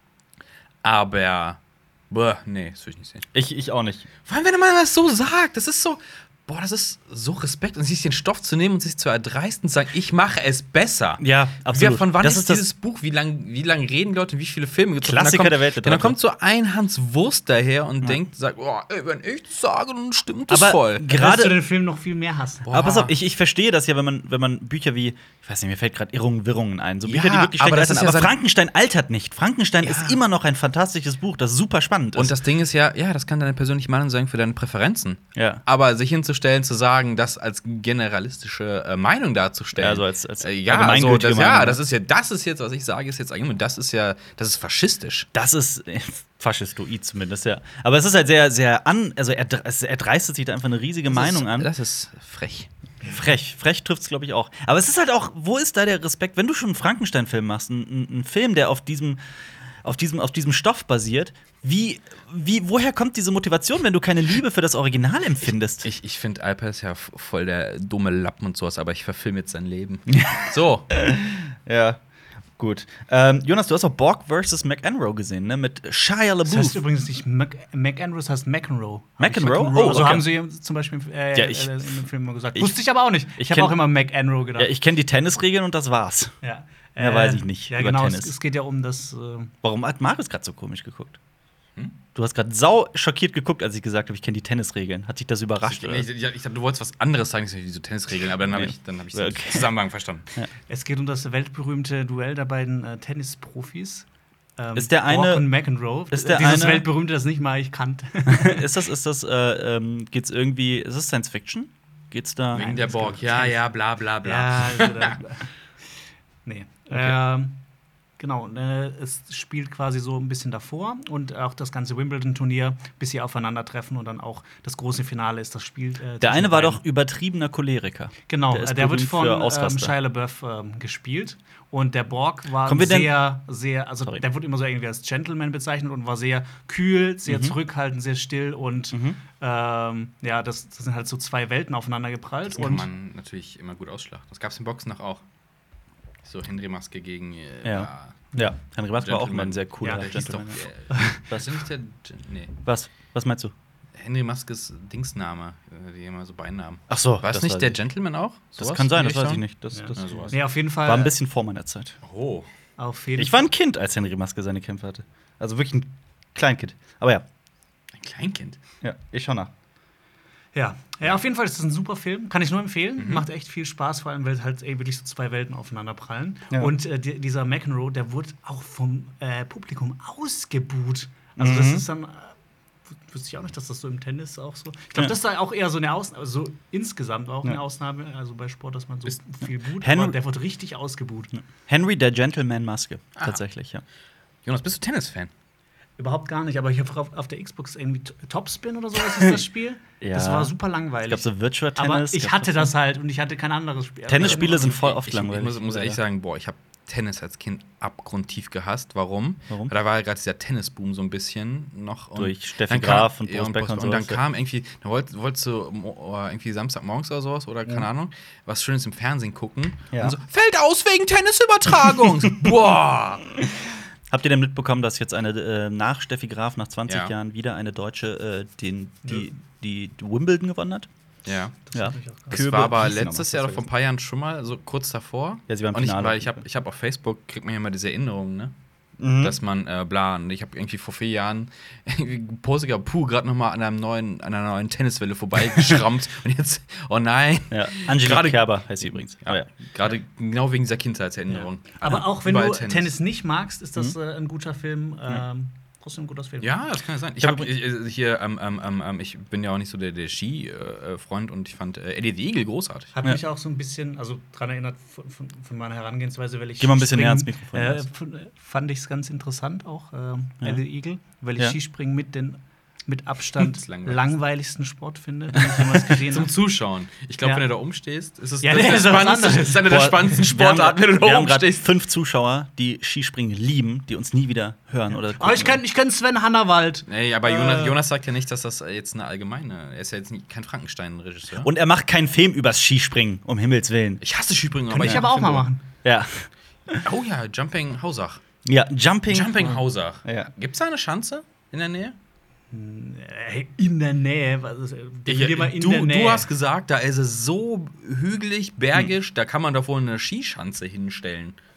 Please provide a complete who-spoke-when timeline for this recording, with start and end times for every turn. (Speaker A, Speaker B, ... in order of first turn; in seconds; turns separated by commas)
Speaker A: 0.8-1.6, Speaker A: 2.1-3.3, Speaker B: 3.3-4.1, Speaker A: 4.2-21.1, Speaker B: 11.2-12.7, Speaker B: 15.0-16.2, Speaker B: 20.5-21.6, Speaker C: 21.1-22.7, Speaker A: 22.6-23.1, Speaker B: 22.7-32.3, Speaker A: 27.0-28.3, Speaker A: 29.8-30.2, Speaker A: 32.1-45.3, Speaker B: 35.4-35.6, Speaker B: 39.8-41.8, Speaker B: 45.3-51.7, Speaker A: 51.0-52.7, Speaker B: 53.0-59.2, Speaker B: 59.8-65.9, Speaker A: 65.8-70.9, Speaker B: 70.1-72.0, Speaker B: 72.6-76.8, Speaker C: 76.5-84.7, Speaker B: 79.2-80.3, Speaker B: 81.3-82.0, Speaker B: 83.3-83.8, Speaker B: 84.6-86.3, Speaker C: 86.4-89.5, Speaker B: 87.0-88.3, Speaker B: 89.6-91.2, Speaker B: 92.1-96.1, Speaker A: 95.6-100.3, Speaker B: 98.5-99.7, Speaker C: 100.7-104.0, Speaker C: 104.6-108.7, Speaker B: 104.8-105.5, Speaker B: 106.1-106.8, Speaker B: 108.3-112.7, Speaker A: 112.5-115.2, Speaker C: 112.5-113.6, Speaker C: 114.2-115.5, Speaker C: 116.4-117.6, Speaker C: 118.2-126.8, Speaker B: 126.2-129.9, Speaker C: 128.3-142.9, Speaker B: 132.6-133.2, Speaker B: 137.3-137.5, Speaker B: 138.9-139.2, Speaker A: 142.5-145.2, Speaker A: 146.2-148.2, Speaker B: 147.6-150.6, Speaker A: 149.0-152.5, Speaker C: 150.9-151.2, Speaker B: 152.6-153.5, Speaker A: 153.9-159.4, Speaker B: 156.9-157.8, Speaker B: 158.6-162.0, Speaker C: 159.7-161.1, Speaker A: 159.9-160.3, Speaker A: 162.0-162.5, Speaker C: 162.8-163.5, Speaker B: 163.2-167.2, Speaker A: 167.9-168.6, Speaker B: 168.8-169.5, Speaker C: 170.5-182.3, Speaker A: 173.0-173.2, Speaker B: 181.4-181.8, Speaker C: 182.9-191.3, Speaker B: 189.8-190.2, Speaker B: 191.7-193.8, Speaker A: 194.4-195.3, Speaker C: 196.0-204.8, Speaker B: 200.0-200.5, Speaker B: 201.1-202.7, Speaker B: 204.1-206.0, Speaker A: 204.2-223.3, Speaker B: 212.2-214.2, Speaker B: 224.1-230.9, Speaker A: 226.9-227.1, Speaker A: 231.2-231.6, Speaker C: 231.7-232.4, Speaker B: 231.7-233.6, Speaker A: 232.3-238.5, Speaker B: 235.5-236.4, Speaker B: 239.0-239.4, Speaker A: 239.2-252.9, Speaker B: 247.5-249.5, Speaker C: 251.3-256.5, Speaker A: 256.4-262.9, Speaker B: 257.2-257.5, Speaker C: 262.9-276.3, Speaker B: 266.6-267.8, Speaker A: 273.4-274.1, Speaker A: 276.0-281.6, Speaker C: 278.4-280.1, Speaker B: 279.6-285.6, Speaker C: 284.9-287.8, Speaker A: 286.9-291.5, Speaker B: 291.4-294.0, Speaker A: 294.0-295.4, Speaker C: 294.7-295.6, Speaker B: 294.8-295.1, Speaker B: 295.8-296.9, Speaker A: 296.8-298.2, Speaker B: 298.4-300.3, Speaker A: 299.1-301.9, Speaker C: 302.5-306.3, Speaker A: 305.1-311.4